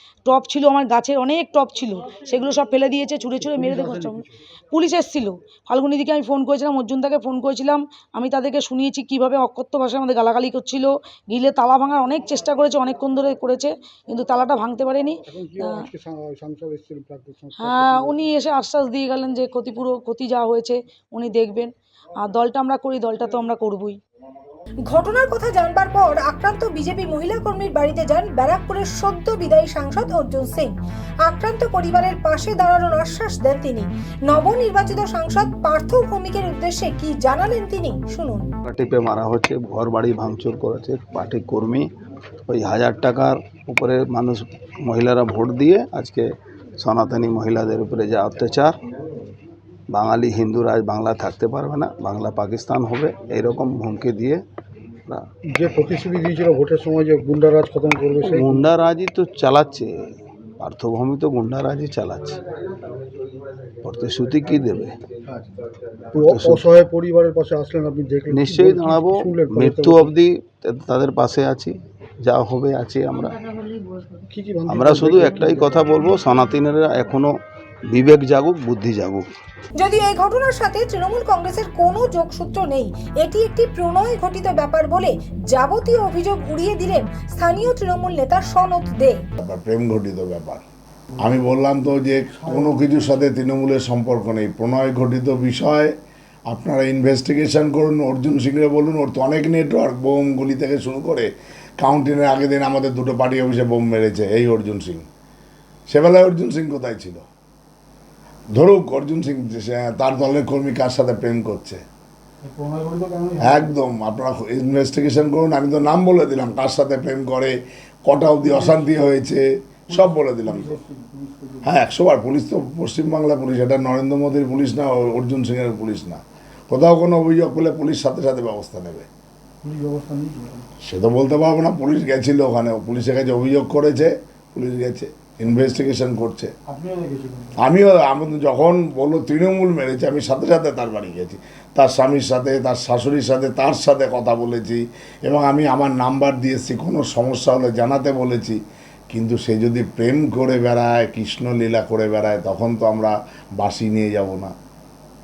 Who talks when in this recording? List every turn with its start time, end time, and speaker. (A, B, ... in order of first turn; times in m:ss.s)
0:00.2-0:15.8 A
0:03.4-0:04.4 B
0:15.2-0:18.2 B
0:17.6-0:24.0 A
0:24.9-0:30.7 C
0:31.2-0:38.5 C
0:38.7-0:41.9 D
0:42.5-0:46.2 D
0:46.8-0:48.8 D
0:49.9-0:54.4 D
0:55.5-0:58.7 B
0:58.2-1:02.4 D
1:03.8-1:05.0 D
1:06.1-1:10.1 B
1:06.2-1:06.7 D
1:08.3-1:13.5 D
1:14.3-1:16.0 B
1:14.7-1:17.3 D
1:17.9-1:19.2 D
1:19.8-1:29.2 C
1:29.4-1:30.6 E
1:31.2-1:35.9 E
1:32.4-1:32.8 B
1:36.5-1:45.0 E
1:45.9-1:47.2 E
1:48.5-1:51.8 E
1:52.4-1:53.7 B
1:53.4-2:00.8 E
1:58.4-1:58.8 B
1:59.9-2:01.7 B
2:01.6-2:09.1 E
2:09.6-2:10.7 B
2:10.8-2:16.5 E
2:16.7-2:17.6 B
2:17.6-2:28.6 E
2:29.1-2:34.5 E